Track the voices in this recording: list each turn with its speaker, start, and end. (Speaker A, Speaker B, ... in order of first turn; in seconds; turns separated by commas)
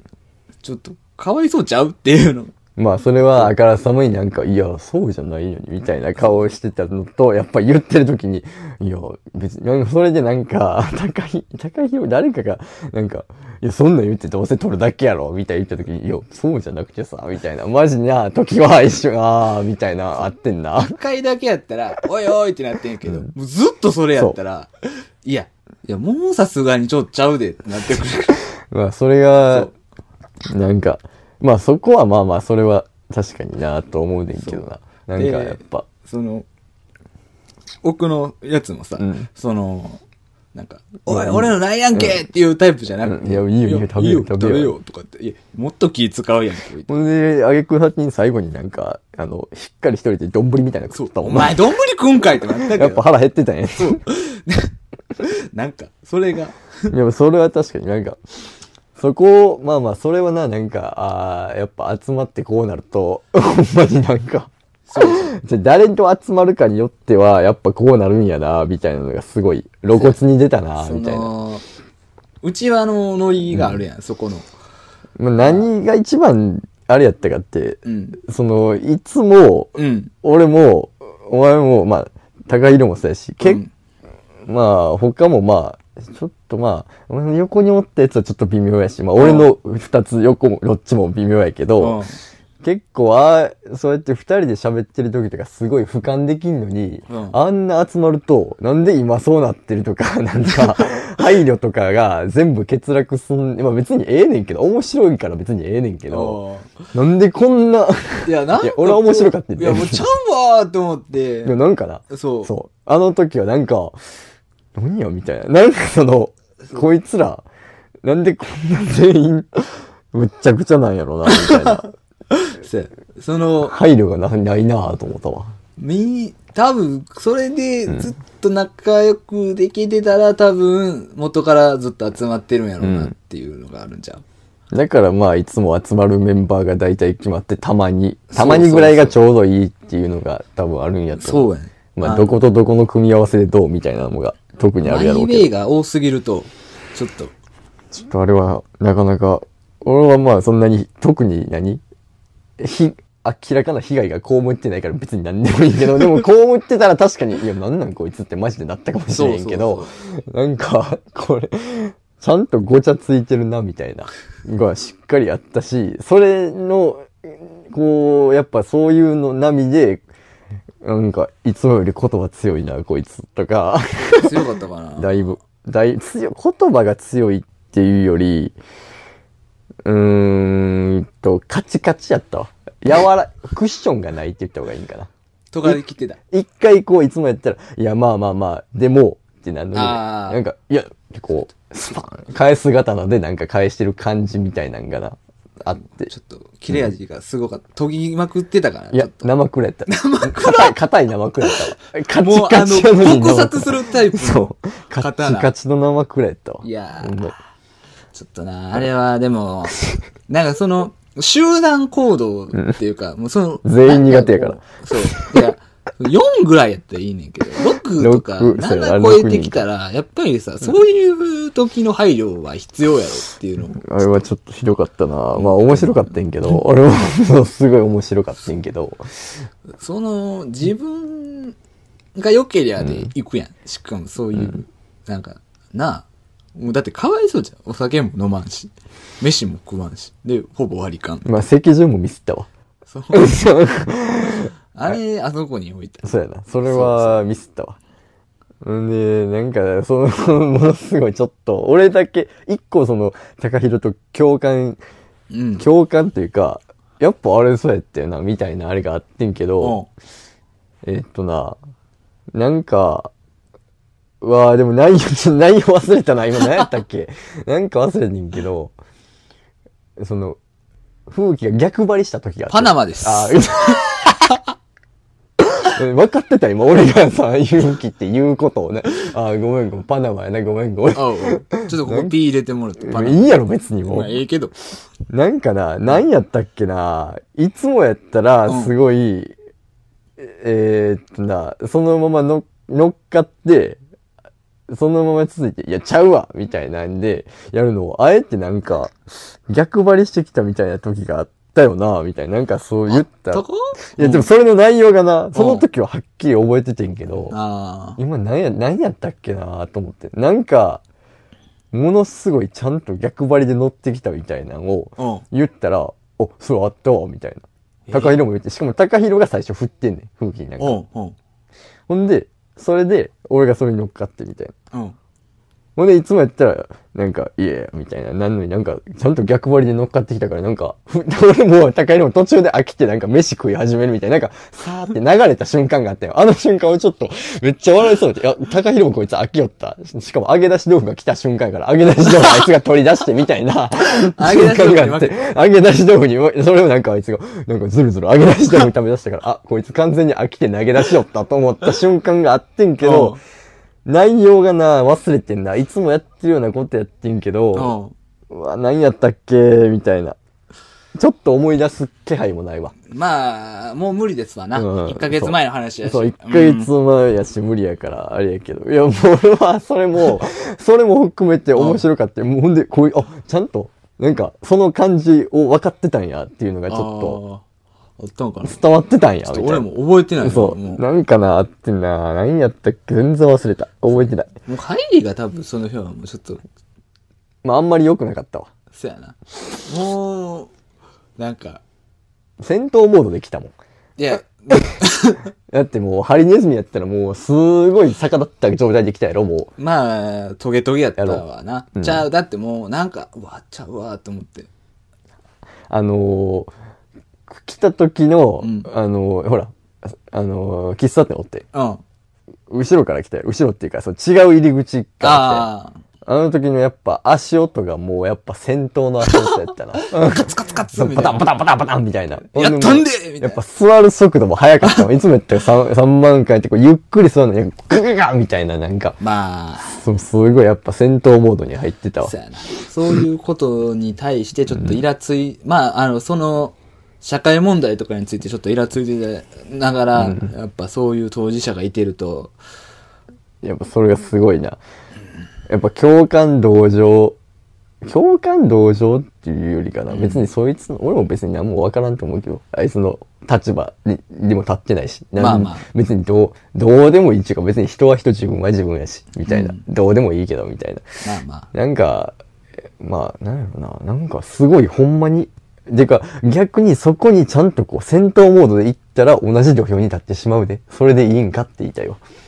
Speaker A: 0.6-2.5, Speaker B: 2.8-21.0, Speaker A: 6.2-6.4, Speaker A: 20.8-24.7, Speaker A: 25.2-28.4, Speaker B: 28.7-29.7, Speaker A: 29.4-29.7, Speaker B: 30.5-35.9, Speaker A: 34.4-36.5, Speaker A: 37.8-40.0, Speaker B: 39.0-39.3, Speaker A: 40.5-46.9, Speaker B: 41.1-42.2, Speaker B: 43.0-44.7, Speaker B: 46.9-51.6, Speaker A: 50.9-53.0, Speaker B: 52.6-54.0, Speaker A: 53.8-56.9, Speaker B: 56.9-58.2, Speaker B: 59.0-71.3, Speaker A: 64.9-65.3, Speaker A: 69.9-70.2, Speaker A: 70.8-71.6, Speaker A: 72.4-74.5, Speaker B: 75.2-83.6, Speaker A: 75.4-75.7, Speaker A: 77.8-78.2, Speaker A: 79.7-80.1, Speaker A: 83.4-83.7, Speaker B: 84.5-92.0, Speaker A: 89.2-89.5, Speaker A: 91.8-92.2, Speaker B: 92.6-106.4, Speaker A: 97.1-97.4, Speaker A: 106.1-106.8, Speaker B: 106.9-110.1, Speaker A: 108.2-111.6, Speaker B: 111.4-114.0, Speaker A: 112.1-112.5, Speaker B: 114.8-117.4, Speaker B: 118.0-121.9, Speaker A: 121.3-123.8, Speaker B: 123.7-125.5, Speaker A: 125.8-134.2, Speaker B: 132.8-133.1, Speaker B: 134.7-145.5, Speaker A: 138.3-139.2, Speaker A: 141.2-142.3, Speaker A: 144.8-147.3, Speaker B: 147.9-151.8, Speaker B: 152.6-170.0, Speaker A: 159.1-159.9, Speaker B: 170.8-174.4, Speaker A: 174.1-175.2, Speaker B: 175.0-178.6, Speaker B: 179.8-185.1, Speaker A: 185.5-186.2, Speaker B: 186.3-196.1, Speaker A: 189.7-190.4, Speaker A: 195.9-199.3, Speaker B: 198.9-207.3, Speaker A: 199.9-200.8, Speaker A: 201.4-205.5, Speaker A: 206.6-207.3, Speaker A: 208.1-224.0, Speaker B: 213.6-215.4, Speaker B: 218.0-219.6, Speaker B: 223.8-229.1, Speaker A: 225.3-226.1, Speaker A: 229.8-231.6, Speaker A: 232.2-241.4, Speaker B: 241.2-242.5, Speaker A: 242.9-243.4, Speaker B: 243.1-245.0, Speaker A: 244.7-247.2, Speaker B: 246.0-247.8, Speaker B: 248.6-254.8, Speaker A: 255.3-255.7, Speaker B: 255.6-259.8, Speaker A: 259.6-259.9, Speaker B: 260.8-261.6, Speaker B: 262.3-263.1, Speaker B: 264.2-268.7, Speaker B: 270.0-270.4, Speaker B: 271.1-274.1, Speaker A: 272.5-274.3, Speaker B: 275.4-282.1, Speaker A: 280.9-284.5, Speaker B: 282.8-284.2, Speaker B: 285.1-289.3, Speaker A: 288.5-288.7, Speaker B: 290.2-293.8, Speaker B: 294.7-299.0, Speaker B: 299.5-303.4, Speaker A: 302.9-304.3, Speaker B: 304.0-307.4, Speaker A: 305.3-305.6, Speaker A: 307.3-308.0, Speaker B: 308.0-310.8, Speaker B: 311.7-320.8, Speaker A: 315.0-315.2, Speaker A: 317.9-318.2, Speaker A: 320.6-321.1, Speaker B: 321.9-324.5, Speaker B: 325.8-353.2, Speaker A: 344.0-345.2, Speaker A: 352.8-353.2, Speaker B: 353.8-357.7, Speaker A: 357.5-357.9, Speaker B: 358.3-360.2, Speaker B: 360.9-362.7, Speaker A: 362.9-366.7, Speaker B: 364.5-377.2, Speaker A: 371.5-371.8, Speaker A: 376.7-377.4, Speaker A: 378.0-378.6, Speaker B: 378.4-379.6, Speaker A: 379.2-380.8, Speaker B: 380.2-384.3, Speaker A: 383.9-386.4, Speaker B: 387.4-388.5, Speaker A: 388.7-390.5, Speaker A: 391.2-391.6, Speaker B: 392.4-393.5, Speaker A: 394.0-395.2, Speaker B: 395.5-399.5, Speaker A: 399.6-404.5, Speaker B: 401.0-401.2, Speaker B: 401.8-402.0, Speaker B: 405.7-406.5, Speaker B: 407.3-411.4, Speaker A: 408.4-408.7, Speaker A: 411.5-411.8, Speaker B: 412.5-415.5, Speaker A: 415.0-415.7, Speaker B: 416.1-429.0, Speaker A: 419.0-421.2, Speaker A: 422.3-423.4, Speaker A: 429.0-429.8, Speaker B: 429.8-432.1, Speaker A: 432.0-442.3, Speaker B: 434.5-434.8, Speaker B: 440.0-440.3, Speaker B: 443.4-444.6, Speaker B: 445.5-447.2, Speaker B: 447.8-460.8, Speaker A: 449.9-450.3, Speaker A: 455.2-455.6, Speaker A: 459.2-459.6, Speaker A: 461.0-461.5, Speaker B: 461.5-462.1, Speaker B: 462.8-472.0